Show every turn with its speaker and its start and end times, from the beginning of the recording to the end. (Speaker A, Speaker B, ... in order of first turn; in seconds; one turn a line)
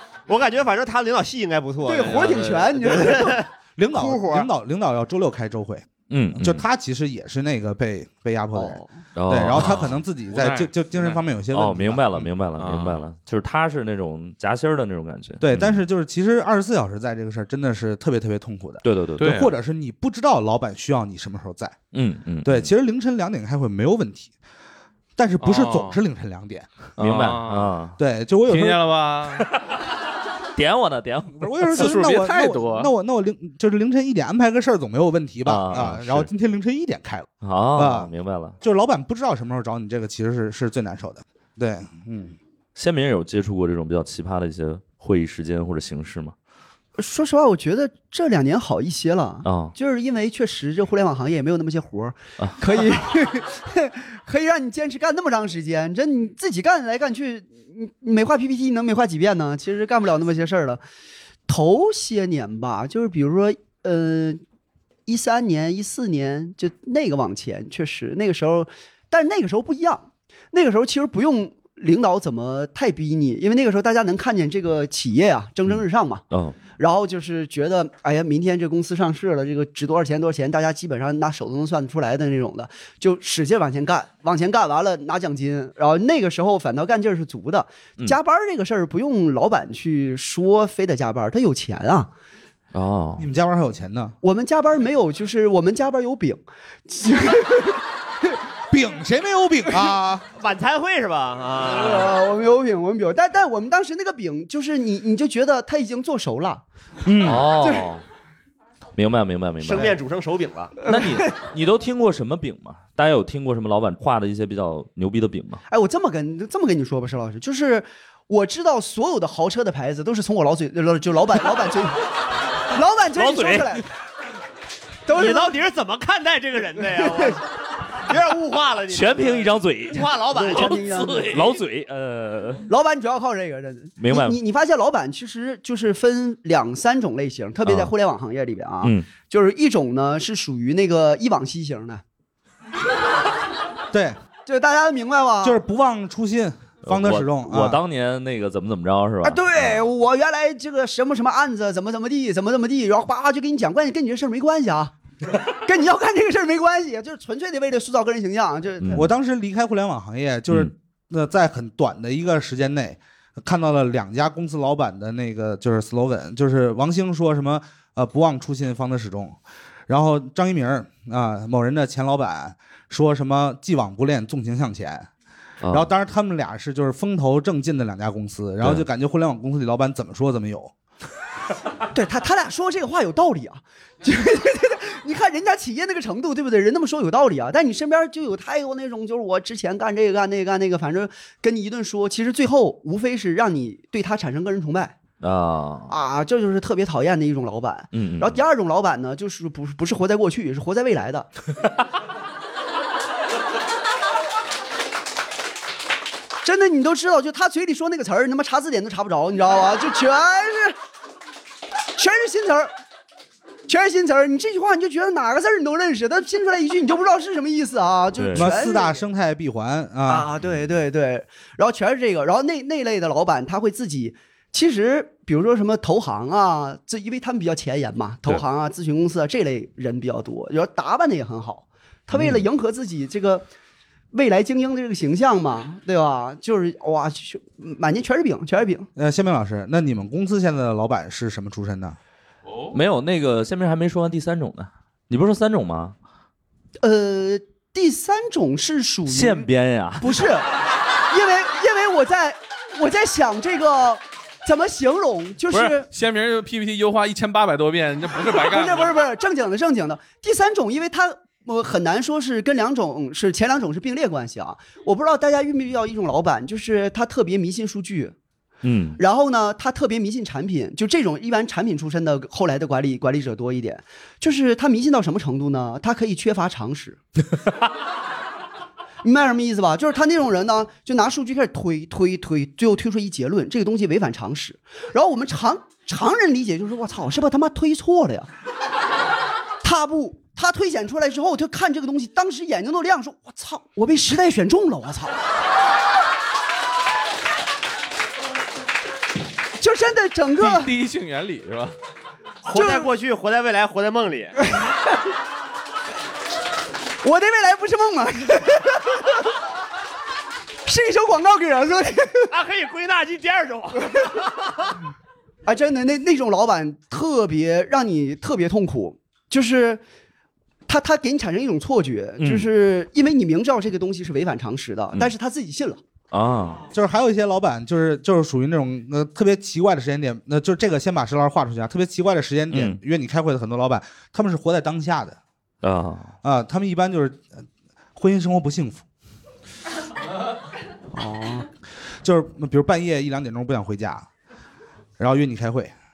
Speaker A: 0.3-4.5
Speaker B: 1.8-3.4
Speaker C: 3.8-12.3
Speaker D: 6.1-6.6
Speaker B: 8.6-8.8
Speaker D: 9.2-10.0
Speaker E: 9.6-11.2
Speaker D: 11.5-15.8
Speaker E: 12.6-13.0
Speaker C: 15.4-21.8
Speaker D: 18.8-19.5
Speaker E: 19.2-19.5
Speaker D: 21.9-22.7
Speaker C: 22.4-24.3
Speaker C: 25.2-26.7
Speaker E: 25.4-26.0
Speaker E: 27.0-27.7
Speaker D: 27.0-28.0
Speaker C: 28.0-28.9
Speaker E: 28.5-29.5
Speaker D: 30.6-31.9
Speaker C: 31.4-42.4
Speaker E: 31.7-32.9
Speaker D: 35.5-36.3
Speaker D: 37.4-38.6
Speaker D: 42.8-46.3
Speaker B: 47.0-60.8
Speaker D: 49.5-49.7
Speaker B: 61.5-64.4
Speaker B: 65.1-76.2
Speaker D: 75.7-76.6
Speaker B: 76.8-92.1
Speaker D: 92.7-93.3
Speaker C: 93.2-94.2
Speaker B: 94.2-98.4
Speaker C: 98.7-100.2
Speaker A: 100.4-102.2
Speaker B: 101.8-106.6
Speaker C: 107.0-107.5
Speaker D: 107.2-108.0
Speaker D: 109.0-110.0
Speaker A: 109.6-110.8
Speaker D: 110.8-115.6
Speaker B: 111.0-111.3
Speaker B: 115.7-122.1
Speaker B: 122.7-123.9
Speaker D: 123.2-123.8
Speaker B: 125.1-125.5
Speaker A: 125.1-127.4
Speaker B: 127.0-127.3
Speaker A: 128.0-131.3
Speaker D: 128.9-132.7
Speaker B: 130.3-131.4
Speaker B: 132.7-142.0
Speaker D: 134.0-134.4
Speaker D: 137.7-137.9
Speaker D: 138.8-139.1
Speaker C: 143.9-144.2
Speaker B: 144.5-145.6
Speaker C: 145.4-147.8
Speaker D: 146.9-149.8
Speaker B: 149.2-154.9
Speaker B: 155.6-159.1
Speaker D: 158.8-159.1
Speaker C: 158.9-169.4
Speaker C: 169.9-175.1
Speaker D: 175.6-175.9
Speaker C: 175.7-180.7
Speaker B: 181.9-195.0
Speaker D: 195.2-195.9
Speaker B: 195.9-201.3
Speaker D: 197.9-198.4
Speaker B: 206.4-210.8
Speaker B: 212.0-212.7
Speaker B: 213.7-219.0
Speaker D: 218.2-218.5
Speaker C: 218.3-220.3
Speaker B: 220.1-233.5
Speaker B: 234.1-238.9
Speaker C: 239.0-242.0
Speaker E: 242.5-242.8
Speaker D: 242.7-245.9
Speaker B: 246.8-249.5
Speaker D: 249.1-250.1
Speaker B: 250.0-250.5
Speaker B: 251.1-255.9
Speaker E: 255.9-258.9
Speaker B: 258.3-268.1
Speaker D: 268.6-269.0
Speaker B: 269.0-277.0
Speaker B: 279.0-288.3
Speaker B: 289.6-295.2
Speaker B: 299.6-300.7
Speaker E: 300.4-301.8
Speaker B: 302.5-302.9
Speaker A: 302.5-304.4
Speaker B: 307.0-309.3
Speaker B: 310.6-312.3
Speaker A: 312.3-314.0
Speaker B: 315.5-319.8
Speaker B: 320.7-325.8
Speaker D: 322.2-322.5
Speaker D: 326.1-326.6
Speaker C: 326.7-335.2
Speaker D: 332.5-332.8
Speaker D: 335.6-336.1
Speaker C: 336.2-337.4
Speaker C: 338.0-338.8
Speaker C: 341.0-341.4
Speaker C: 342.0-344.1
Speaker C: 345.0-345.7